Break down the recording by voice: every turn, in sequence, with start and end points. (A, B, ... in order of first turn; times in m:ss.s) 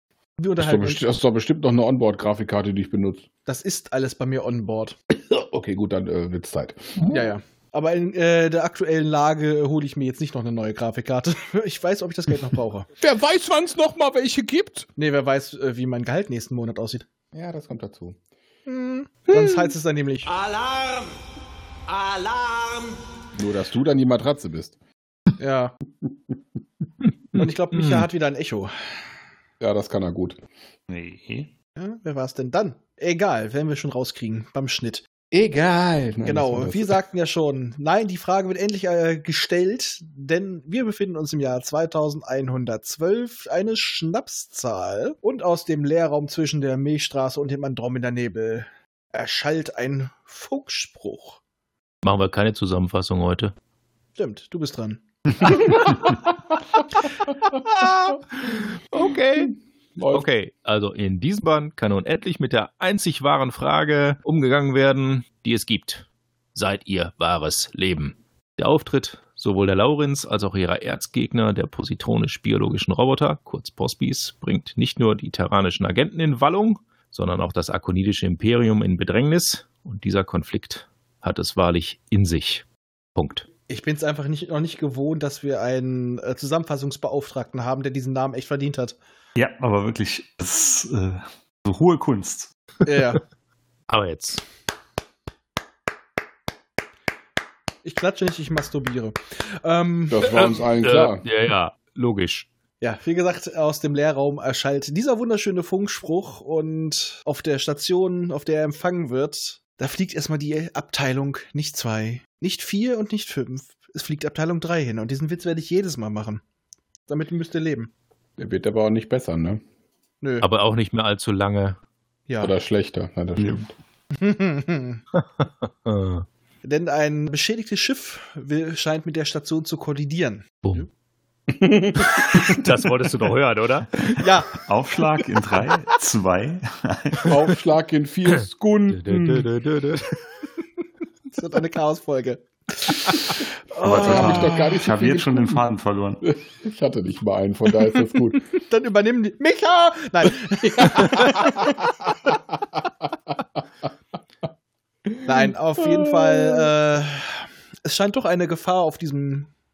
0:00.4-0:01.0 A
0:00.6-0:03.2 B
0:03.4-0:05.0 A
0:05.3-0:07.3 B
0:07.1-0:12.9 A
0:13.0-0:14.9 B
0:15.0-0:17.0 A
0:17.3-0:18.2 B
0:18.6-0:20.3 A
0:19.3-0:19.7 C
0:20.2-0:21.1 D
0:21.9-0:23.0 D
0:23.4-0:24.7 B
0:25.4-0:25.7 A
0:27.3-0:28.7 A
0:29.6-0:30.4 B
0:30.9-0:31.5 E
0:31.8-0:35.0 A
0:35.3-0:37.0 B
0:36.2-0:51.4 A
0:52.0-0:53.5 C
0:54.2-0:55.9 A
0:57.5-0:59.5 C
0:59.4-1:00.3 B
1:00.1-1:22.6 C
1:23.2-1:23.4 C
1:23.7-1:29.0 A
1:29.4-1:32.5 E
1:32.8-1:33.2 A
1:33.9-1:34.4 C
1:37.8-1:40.2 A
1:40.1-1:41.2 B
1:40.2-1:42.5 C
1:42.8-1:56.4 A
1:57.1-1:57.9 A
1:58.4-1:59.6 B
2:00.2-2:00.5 A
2:00.4-2:01.8 C
2:02.3-2:02.5 A
2:02.4-2:03.7 B
2:03.4-2:03.7 E
2:04.1-2:05.0 A
2:05.2-2:06.2 C
2:06.6-2:10.9 A
2:11.5-2:12.6 B
2:12.1-2:14.1 C
2:14.1-2:14.6 A
2:14.6-2:17.4 E
2:17.2-2:19.5 B
2:18.9-2:20.3 C
2:21.3-2:24.6 A
2:23.8-2:26.2 E
2:23.9-2:25.6 B
2:26.2-2:28.5 B
2:28.6-2:31.9 A
2:30.8-2:31.8 B
2:35.2-2:39.5 A
2:35.3-2:36.7 B